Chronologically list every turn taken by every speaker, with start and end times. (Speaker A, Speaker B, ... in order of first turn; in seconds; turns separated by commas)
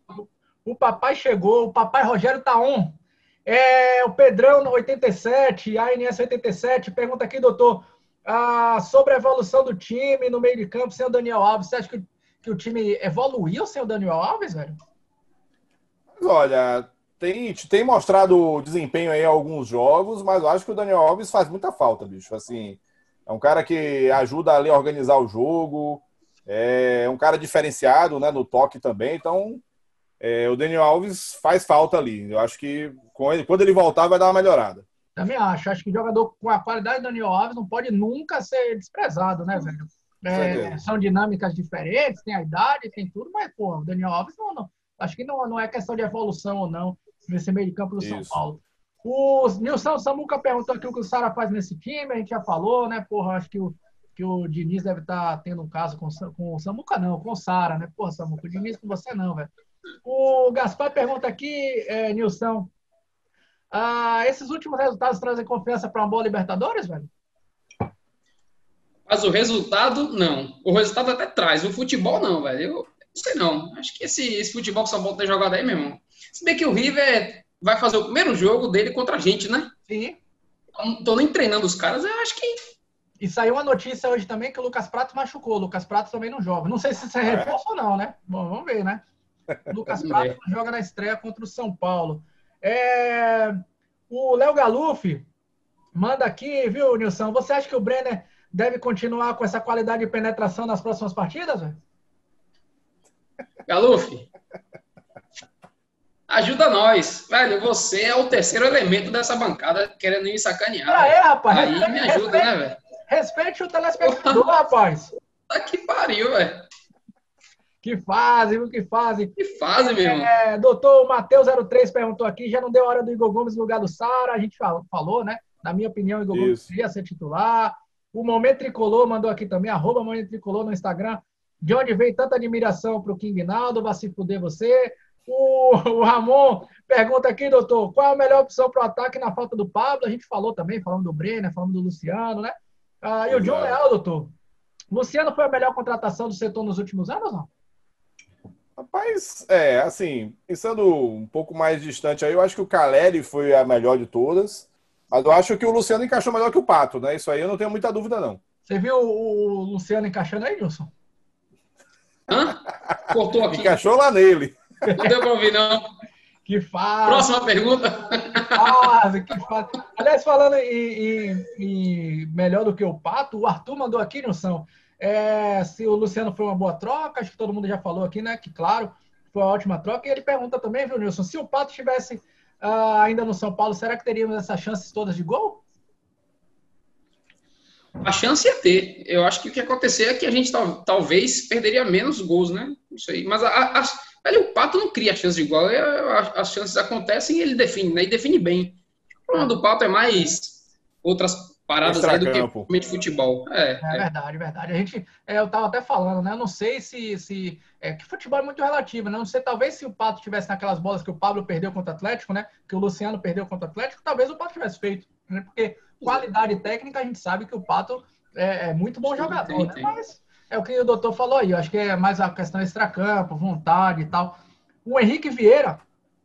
Speaker A: 0.2-14.8, Speaker B: 16.2-29.6, Speaker B: 30.2-34.9, Speaker A: 35.2-59.5, Speaker B: 40.3-40.8, Speaker B: 48.0-48.4, Speaker A: 60.0-62.7, Speaker A: 63.7-67.1, Speaker C: 69.1-79.7, Speaker A: 79.9-80.2, Speaker C: 80.8-82.6, Speaker A: 83.2-89.0, Speaker B: 87.2-87.6, Speaker A: 89.7-95.2, Speaker C: 90.0-90.3, Speaker A: 96.0-101.8, Speaker C: 103.7-104.3, Speaker C: 106.3-112.8, Speaker A: 110.9-112.5, Speaker A: 113.1-115.1, Speaker C: 114.0-114.5, Speaker C: 115.5-116.7, Speaker A: 117.8-144.3, Speaker C: 119.4-120.3, Speaker B: 126.3-126.7, Speaker B: 143.3-143.8, Speaker A: 144.9-147.5, Speaker B: 148.8-158.4, Speaker A: 158.7-160.9, Speaker C: 162.3-163.8, Speaker B: 163.5-164.6, Speaker A: 164.9-165.1, Speaker C: 164.9-165.8, Speaker A: 166.5-167.3, Speaker C: 167.1-168.7, Speaker A: 168.5-185.6, Speaker C: 188.0-204.1, Speaker B: 201.8-202.7, Speaker A: 203.8-225.8, Speaker C: 219.1-219.9